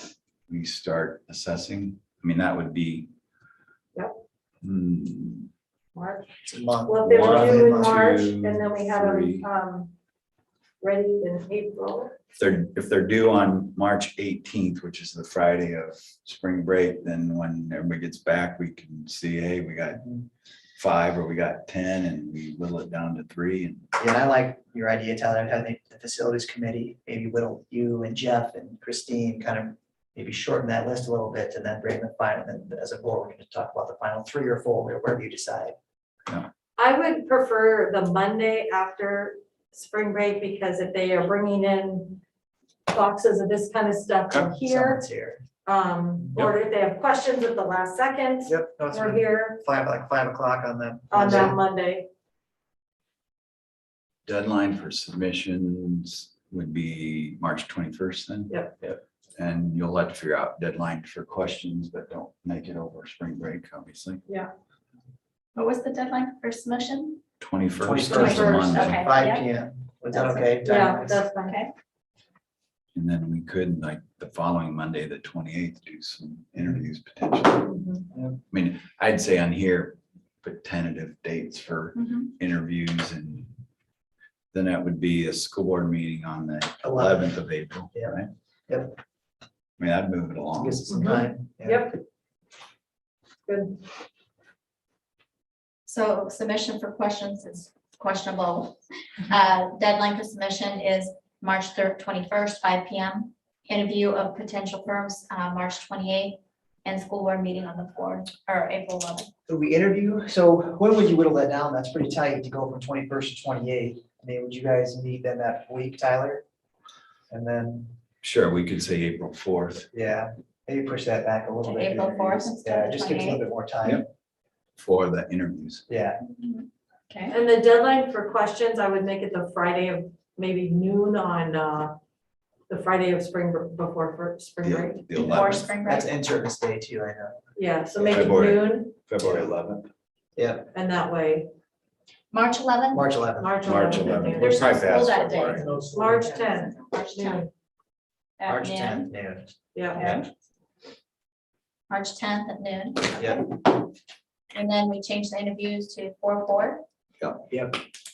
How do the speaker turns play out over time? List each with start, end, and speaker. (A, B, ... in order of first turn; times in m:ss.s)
0:00.5-0:03.1 A
0:04.6-0:05.5 A
0:05.9-0:06.3 B
0:06.5-0:08.1 C
0:06.9-0:09.9 B
0:07.0-0:09.5 A
0:10.8-0:12.1 B
0:12.4-0:20.0 A
0:20.7-0:23.9 A
0:24.0-0:35.8 C
0:36.8-0:42.2 B
0:42.9-0:45.0 B
0:44.3-0:45.4 C
0:45.6-0:49.6 B
0:48.4-0:51.6 C
0:51.1-0:52.1 B
0:54.2-1:04.2 A
0:58.5-0:58.7 B
1:05.6-1:07.2 D
1:07.4-1:09.0 A
1:07.8-1:11.2 C
1:08.1-1:09.4 D
1:10.1-1:10.5 D
1:10.6-1:11.6 B
1:11.5-1:11.7 D
1:12.9-1:17.7 A
1:17.7-1:18.0 B
1:18.1-1:18.4 C
1:18.5-1:23.5 A
1:22.0-1:22.3 D
1:24.5-1:28.3 A
1:26.8-1:27.3 C
1:27.9-1:29.0 C
1:29.8-1:30.8 A
1:30.6-1:31.9 C
1:30.9-1:32.0 B
1:33.5-1:33.8 B
1:35.8-1:49.3 D
1:49.5-1:56.4 C
1:57.3-1:57.9 C
1:58.2-1:59.9 A
1:59.9-2:04.0 C
2:01.6-2:03.4 D
2:04.8-2:05.8 A
2:05.9-2:06.2 C
2:06.2-2:07.4 D
2:07.3-2:12.0 B
2:12.7-2:15.0 B
2:14.6-2:15.7 A
2:15.1-2:16.1 D
2:15.2-2:17.4 C
2:17.6-2:18.9 B
2:18.0-2:18.3 C
2:18.0-2:19.9 A
2:19.2-2:19.5 C
2:20.4-2:20.7 C
2:20.7-2:21.5 B
2:22.3-2:23.0 D
2:22.9-2:23.6 C
2:23.4-2:24.6 B
2:23.6-2:25.7 A
2:24.0-2:27.4 D
2:25.5-2:26.2 C
2:25.8-2:27.5 B
2:28.4-2:29.1 D
2:28.5-2:30.2 C
2:29.7-2:30.0 B
2:30.0-2:30.2 D
2:31.9-2:33.7 D
2:33.2-2:33.4 C
2:34.5-2:36.8 D
2:37.5-2:37.8 C